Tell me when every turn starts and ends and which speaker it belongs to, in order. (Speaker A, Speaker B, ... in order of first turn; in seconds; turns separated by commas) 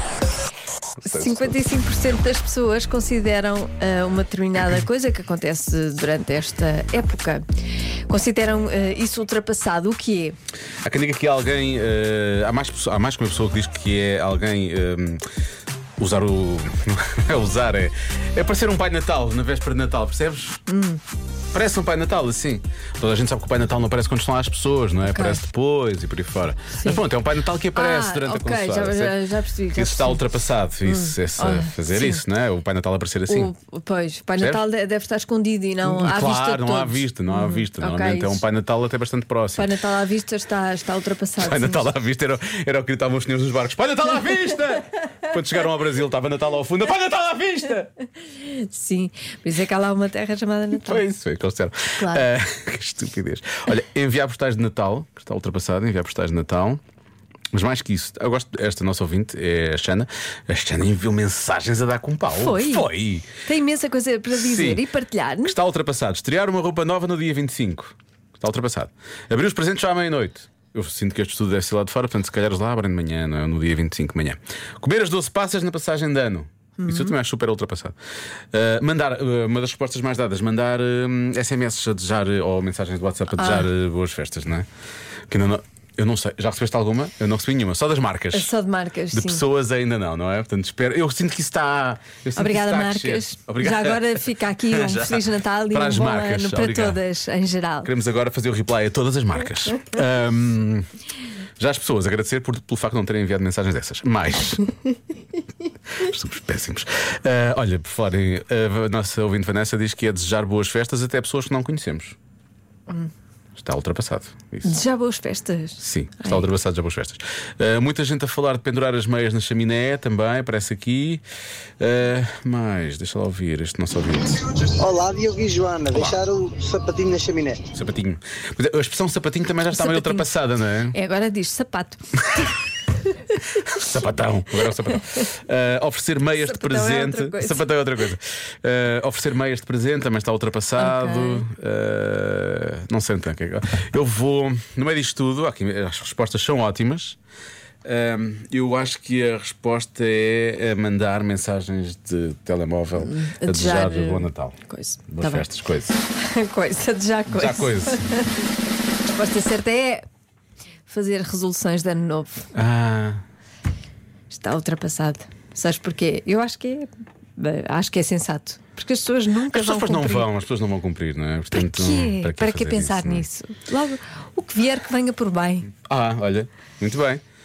Speaker A: 1.0-1.6, Speaker B: 1.0-7.4, Speaker B: 8.1-10.4, Speaker A: 10.8-15.2, Speaker A: 16.0-20.6, Speaker B: 20.7-21.0, Speaker A: 21.5-29.2, Speaker B: 25.0-25.4, Speaker B: 26.8-27.0, Speaker B: 27.7-30.2, Speaker A: 29.8-33.5, Speaker B: 30.8-32.2, Speaker B: 33.3-38.5, Speaker A: 35.8-39.7, Speaker B: 39.5-41.9, Speaker A: 41.4-47.9, Speaker B: 48.2-51.0, Speaker A: 50.8-56.8, Speaker B: 52.0-52.3, Speaker A: 57.5-63.3, Speaker B: 62.3-65.6, Speaker A: 64.3-64.8, Speaker A: 65.4-78.0, Speaker B: 76.8-77.2, Speaker A: 78.5-84.7, Speaker B: 83.3-83.7, Speaker A: 85.3-88.5, Speaker B: 88.3-89.5, Speaker A: 89.1-97.0, Speaker B: 92.4-97.9, Speaker A: 97.8-100.9, Speaker A: 101.6-104.7, Speaker A: 105.9-112.2, Speaker A: 113.5-114.9, Speaker B: 114.7-116.5, Speaker A: 115.8-121.2, Speaker A: 121.8-124.6, Speaker C: 124.6-127.6, Speaker A: 127.7-131.0, Speaker B: 129.7-130.3, Speaker B: 130.9-133.7, Speaker A: 133.5-147.2, Speaker B: 134.9-135.2, Speaker B: 136.3-137.7, Speaker B: 140.8-141.5, Speaker A: 147.8-154.6, Speaker B: 153.0-155.5, Speaker A: 155.1-156.0, Speaker B: 156.2-160.1, Speaker A: 157.3-158.0, Speaker B: 160.9-162.5, Speaker A: 162.5-163.2, Speaker B: 164.3-170.3, Speaker A: 169.5-173.3, Speaker B: 171.5-175.7, Speaker A: 175.8-177.2